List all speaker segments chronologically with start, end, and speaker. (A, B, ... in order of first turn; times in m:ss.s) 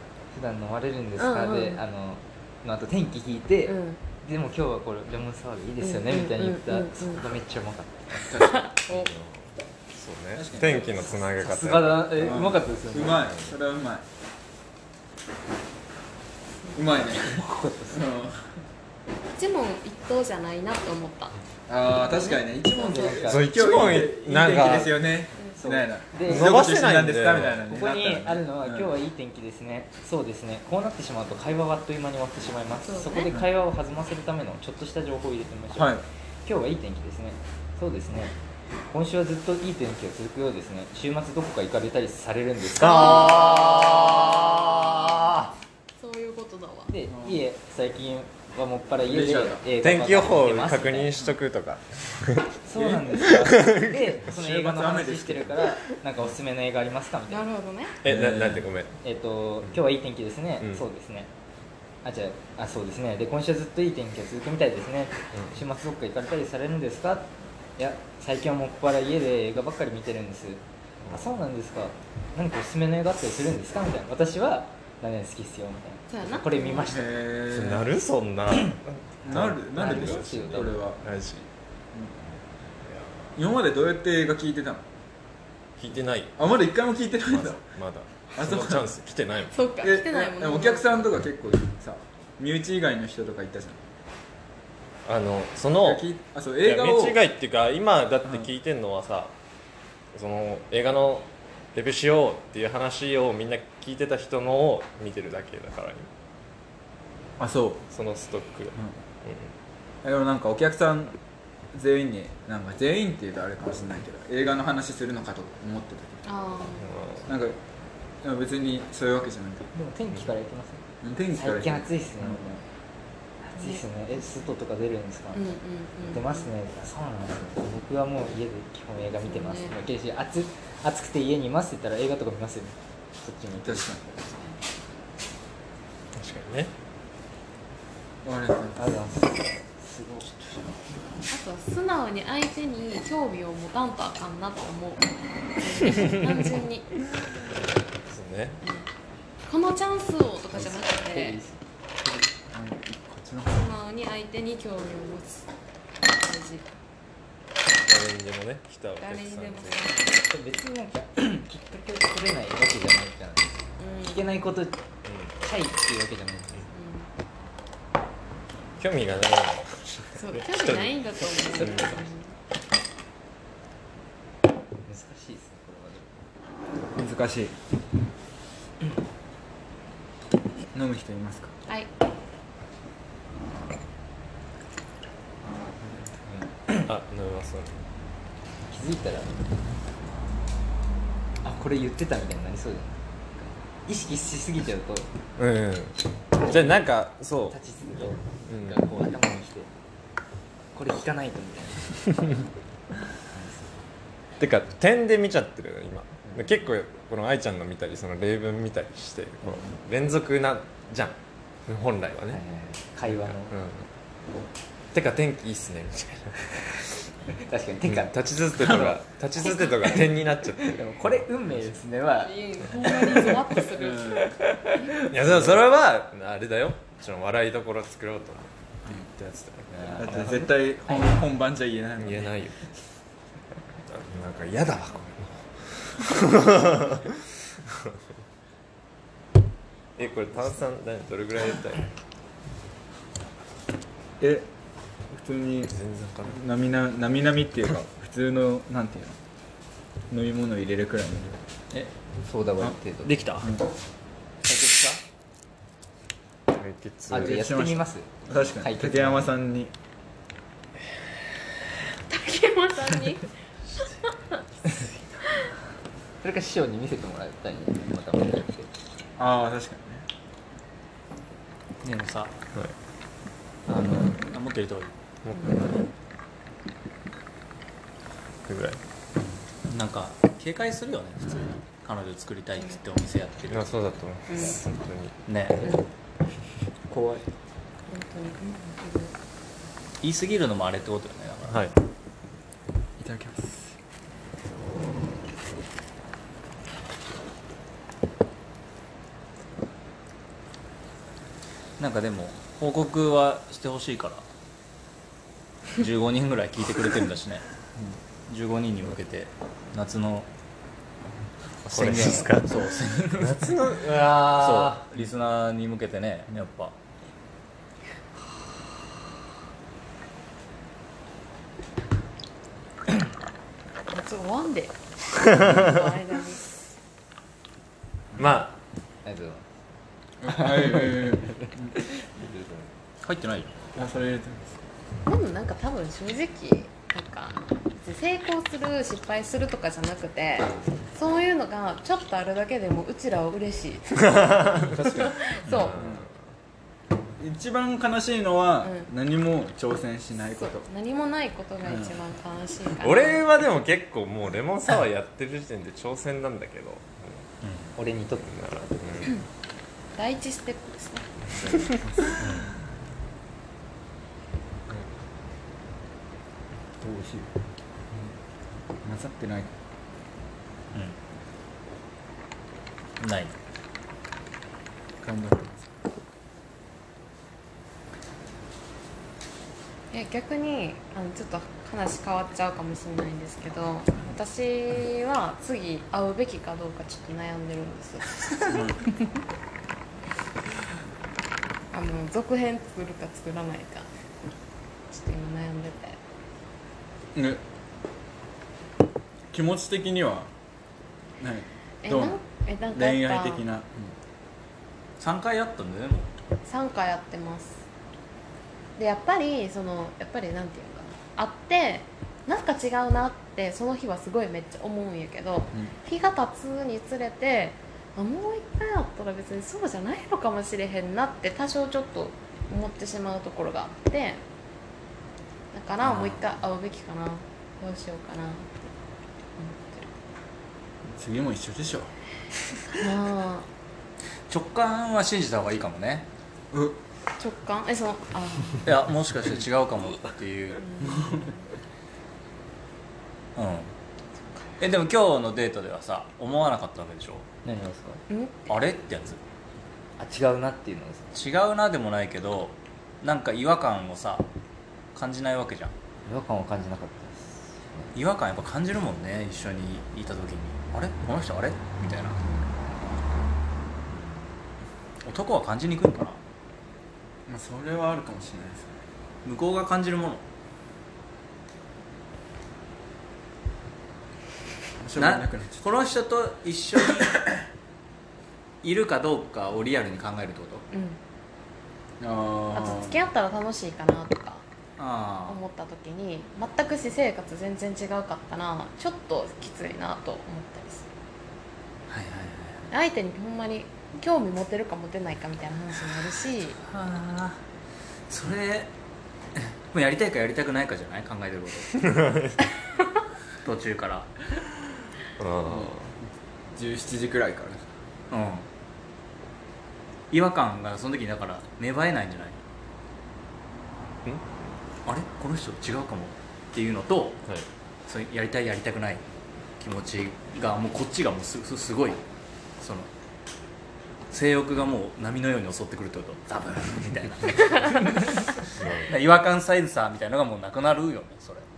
0:00.3-0:08.5 A
0:01.2-0:01.8 B
0:03.7-0:04.0 B
0:05.8-0:07.2 B
0:08.3-0:08.6 C
0:08.3-0:09.1 B
0:08.9-0:12.3 D
0:10.4-0:10.9 C
0:10.8-0:13.6 A
0:12.2-0:14.1 C
0:16.8-0:18.4 C
0:17.2-0:18.1 A
0:19.3-0:21.4 B
0:21.7-0:28.9 C
0:22.0-0:23.2 B
0:22.8-0:23.5 A
0:23.2-0:25.0 D
0:25.6-0:26.7 A
0:26.2-0:27.7 D
0:27.7-0:38.4 A
0:32.8-0:33.4 B
0:35.8-0:36.0 C
0:38.9-0:43.5 A
0:42.8-0:45.2 D
0:42.8-0:45.4 B
0:46.0-0:46.9 B
0:46.9-0:51.2 A
0:47.1-0:47.4 C
0:49.0-0:49.6 C
0:49.8-0:52.5 D
0:52.6-0:57.5 A
0:52.8-0:53.2 C
0:53.3-0:54.1 D
0:54.2-0:55.7 C
0:57.3-0:58.0 B
0:58.0-0:59.0 D
0:58.0-0:58.7 C
0:59.0-1:01.3 A
1:02.0-1:17.2 A
1:16.1-1:17.0 B
1:16.9-1:17.9 C
1:17.5-1:21.5 D
1:19.2-1:21.0 C
1:19.7-1:20.8 A
1:21.9-1:22.2 C
1:23.4-1:24.8 C
1:25.8-1:26.4 D
1:26.4-1:27.6 C
1:27.2-1:29.6 D
1:28.3-1:28.9 C
1:29.5-1:30.9 B
1:29.8-1:33.8 C
1:35.1-1:36.0 D
1:35.8-1:37.2 C
1:36.6-1:39.3 D
1:40.1-1:46.1 D
1:47.4-1:47.8 C
1:47.9-1:49.5 D
1:50.0-1:51.2 C
1:51.7-1:56.2 C
1:56.2-1:57.0 B
1:56.8-1:57.3 D
1:57.3-1:57.6 C
1:58.2-1:59.7 C
1:59.7-2:02.6 A
2:01.0-2:02.6 C
2:03.4-2:13.9 A
2:03.6-2:03.8 B
2:05.3-2:06.5 B
2:09.2-2:09.8 B
2:13.6-2:14.3 C
2:14.3-2:14.6 B
2:16.2-2:16.7 D
2:18.2-2:18.9 C
2:18.8-2:21.0 A
2:21.3-2:25.1 B
2:25.6-2:27.0 B
2:27.6-2:28.6 D
2:28.6-2:28.9 B
2:29.5-2:31.4 B
2:30.5-2:31.6 A
2:32.5-2:33.7 C
2:33.5-2:35.5 B
2:36.1-2:36.7 B
2:37.8-2:40.0 D
2:39.0-2:40.1 B
2:40.2-2:44.8 A
2:43.8-2:44.3 B
2:45.0-2:45.3 D
2:45.4-2:46.7 A
2:46.7-2:47.1 B
2:48.8-2:52.0 D
2:50.2-2:52.3 B
2:54.9-2:56.2 A
2:57.0-2:57.6 C
3:00.7-3:01.5 C
3:06.8-3:07.8 D
3:08.7-3:09.4 A
3:11.4-3:15.1 A
3:15.4-3:17.6 D
3:17.5-3:19.7 A
3:18.5-3:18.8 D
3:20.7-3:22.4 A
3:23.3-3:23.8 A
3:24.4-3:32.5 D
3:26.3-3:26.5 A
3:32.3-3:33.6 A
3:33.0-3:33.9 D
3:34.9-3:37.0 D
3:37.4-3:39.0 A
3:37.9-3:41.3 D
3:39.8-3:43.6 A
3:42.2-3:44.2 B
3:43.8-3:44.5 C
3:45.0-3:50.1 D
3:49.7-3:51.0 A
3:50.0-3:52.3 C
3:52.0-3:52.7 D
3:53.9-3:58.0 D
4:00.0-4:01.9 D
4:04.2-4:04.5 C
4:05.1-4:09.2 C
4:05.7-4:06.4 D
4:10.1-4:11.4 C
4:12.2-4:13.2 A
4:13.0-4:13.5 E
4:13.4-4:13.7 C
4:14.4-4:15.0 E
4:16.5-4:17.5 D
4:17.1-4:19.3 A
4:17.1-4:19.7 C
4:22.1-4:23.3 B
4:26.2-4:28.7 A
4:29.2-4:30.0 C
4:31.8-4:32.4 E
4:33.7-4:34.9 E
4:35.3-4:35.7 D
4:38.4-4:38.8 D
4:39.6-4:43.7 E
4:43.5-4:45.2 D
4:44.3-4:44.6 B
4:45.3-4:45.8 E
4:46.9-4:47.3 C
4:47.9-4:49.1 B
4:50.0-4:51.7 E
4:51.5-4:51.8 D
4:53.0-4:53.8 C
5:01.8-5:04.3 E
5:05.8-5:07.4 E
5:08.3-5:10.3 E
5:11.7-5:13.4 E
5:11.7-5:12.6 D
5:13.1-5:15.0 D
5:14.2-5:16.7 E
5:23.9-5:26.6 B
5:28.2-5:28.5 D
5:29.0-5:29.5 A
5:30.2-5:31.8 C
5:30.4-5:31.0 A
5:32.0-5:32.7 A
5:33.0-5:33.5 E
5:33.8-5:34.6 C
5:35.1-5:45.8 B
5:44.7-5:45.1 C
5:45.5-5:46.1 D
5:45.8-5:46.0 C
5:47.2-5:50.7 C
5:48.6-5:48.9 B
5:50.4-5:53.3 B
5:51.6-5:52.0 C
5:52.8-5:57.3 D
5:57.4-5:57.7 E
5:57.8-5:58.4 A
5:58.2-5:59.2 D
6:00.0-6:01.1 B
6:01.8-6:02.3 C
6:02.2-6:02.5 E
6:06.8-6:07.3 A
6:08.8-6:09.5 C
6:13.0-6:13.3 E
6:15.0-6:15.6 C
6:19.9-6:28.7 B
6:28.5-6:28.9 C
6:31.7-6:33.9 B
6:34.9-6:36.0 B
6:37.2-6:37.4 C
6:39.3-6:40.3 C
6:41.2-6:42.2 C
6:41.8-6:43.4 B
6:42.7-6:43.9 C
6:45.0-6:46.1 E
6:46.5-6:47.6 B
6:48.8-7:04.2 B
7:05.5-7:08.6 B
7:09.4-7:09.9 B
7:10.9-7:11.9 C
7:12.7-7:13.5 B
7:14.3-7:16.1 E
7:16.5-7:16.8 C
7:17.2-7:18.7 B
7:18.6-7:20.7 E
7:20.6-7:21.4 B
7:20.9-7:21.2 C
7:23.4-7:23.7 E
7:24.6-7:27.3 E
7:27.4-7:28.0 A
7:28.1-7:28.6 B
7:28.5-7:29.2 E
7:30.0-7:31.1 A
7:31.1-7:34.3 E
7:35.0-7:35.7 E
7:36.1-7:37.9 A
7:37.9-7:42.2 E
7:42.2-7:42.5 B
7:45.0-7:46.2 E
7:47.3-7:48.7 C
7:49.2-7:50.2 E
7:54.8-7:55.7 C
7:55.0-7:57.2 E
7:58.6-8:00.6 E
8:00.7-8:01.0 B
8:02.0-8:03.0 C
8:02.5-8:04.4 B
8:04.8-8:05.4 E
8:05.3-8:10.9 B
8:11.9-8:12.7 E
8:12.7-8:16.6 B
8:16.6-8:17.4 E
8:18.1-8:18.7 E
8:19.4-8:21.9 E
8:21.9-8:22.4 D
8:23.4-8:24.2 E
8:25.2-8:26.0 D
8:25.5-8:25.7 C
8:26.5-8:27.7 C
8:28.1-8:28.5 E
8:30.1-8:32.4 E
8:34.8-8:37.2 E
8:37.9-8:39.0 E
8:39.6-8:42.0 E
8:42.6-8:42.9 E
8:44.1-8:51.4 E
8:48.6-8:49.0 D